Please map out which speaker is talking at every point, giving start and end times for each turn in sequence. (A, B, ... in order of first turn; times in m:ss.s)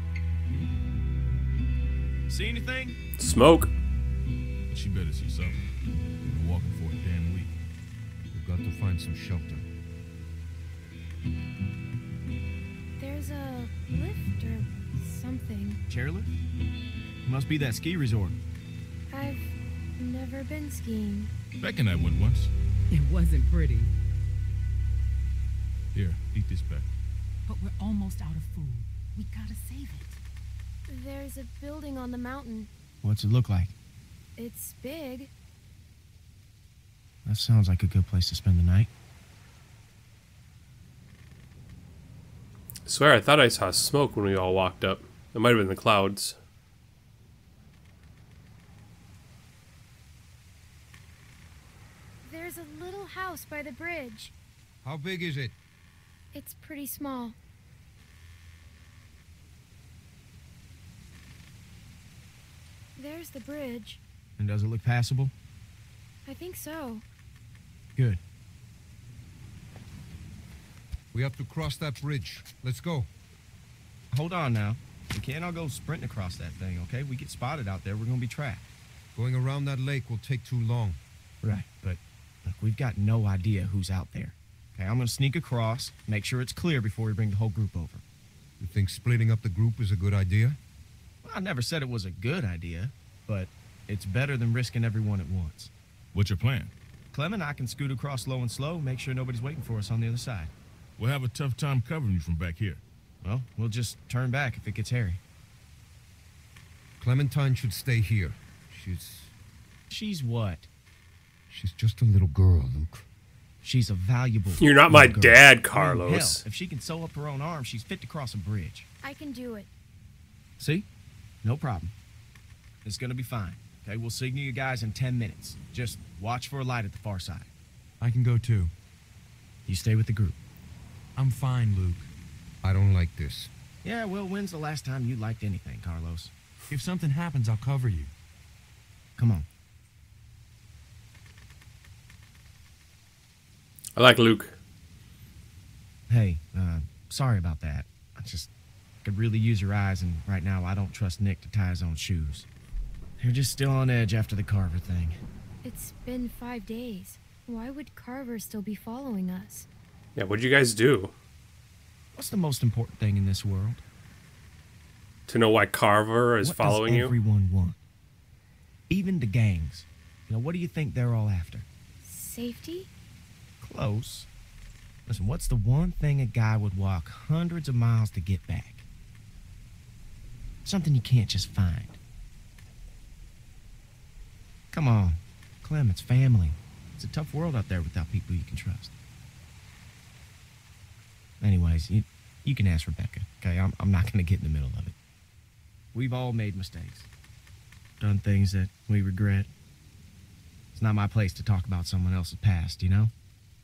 0:02.3-0:03.0 A
0:03.2-0:03.7 B
0:04.7-0:05.7 C
0:06.2-0:07.5 C
0:08.3-0:09.6 D
0:13.0-0:15.8 E
0:15.9-0:16.3 A
0:17.2-0:18.4 A
0:19.1-0:21.3 E
0:21.6-0:22.5 C
0:22.9-0:23.9 F
0:25.9-0:26.9 C
0:27.5-0:30.2 F
0:30.9-0:32.7 E
0:33.0-0:33.7 A
0:34.4-0:35.3 E
0:37.2-0:38.9 A
0:42.8-0:46.4 B
0:52.2-0:54.3 E
0:54.8-0:55.6 D
0:56.3-0:57.4 E
1:03.0-1:04.0 E
1:04.4-1:05.3 A
1:06.2-1:07.0 E
1:08.0-1:08.2 A
1:11.1-1:13.1 D
1:14.1-1:18.7 A
1:19.1-1:21.0 D
1:21.4-1:21.8 A
1:22.4-1:28.0 A
1:28.6-1:30.6 D
1:31.2-1:35.7 A
1:36.1-1:36.7 C
1:37.1-1:40.5 A
1:41.0-1:42.8 C
1:43.2-1:45.2 A
1:47.0-1:49.3 D
1:49.9-1:50.7 A
1:51.5-1:53.0 D
1:53.6-1:58.9 A
1:54.6-1:56.4 B
1:59.0-1:59.7 E
2:00.6-2:00.8 A
2:01.4-2:01.9 A
2:02.8-2:07.5 A
2:08.0-2:08.7 G
2:09.6-2:10.4 A
2:11.2-2:12.1 G
2:12.6-2:13.5 D
2:13.8-2:16.3 A
2:16.7-2:18.1 G
2:19.2-2:19.4 A
2:24.0-2:24.5 B
2:26.1-2:28.5 A
2:29.0-2:32.5 A
2:33.2-2:35.2 A
2:35.6-2:39.7 E
2:40.2-2:41.1 B
2:42.1-2:43.8 A
2:45.3-2:47.1 B
2:46.4-2:47.8 A
2:48.9-2:51.7 A
2:52.0-2:52.9 E
2:53.6-2:54.3 A
2:55.1-2:58.9 A
3:00.6-3:02.0 A
3:04.7-3:08.9 A
3:11.4-3:15.0 A
3:15.9-3:17.1 A
3:18.0-3:19.5 A
3:20.7-3:23.1 A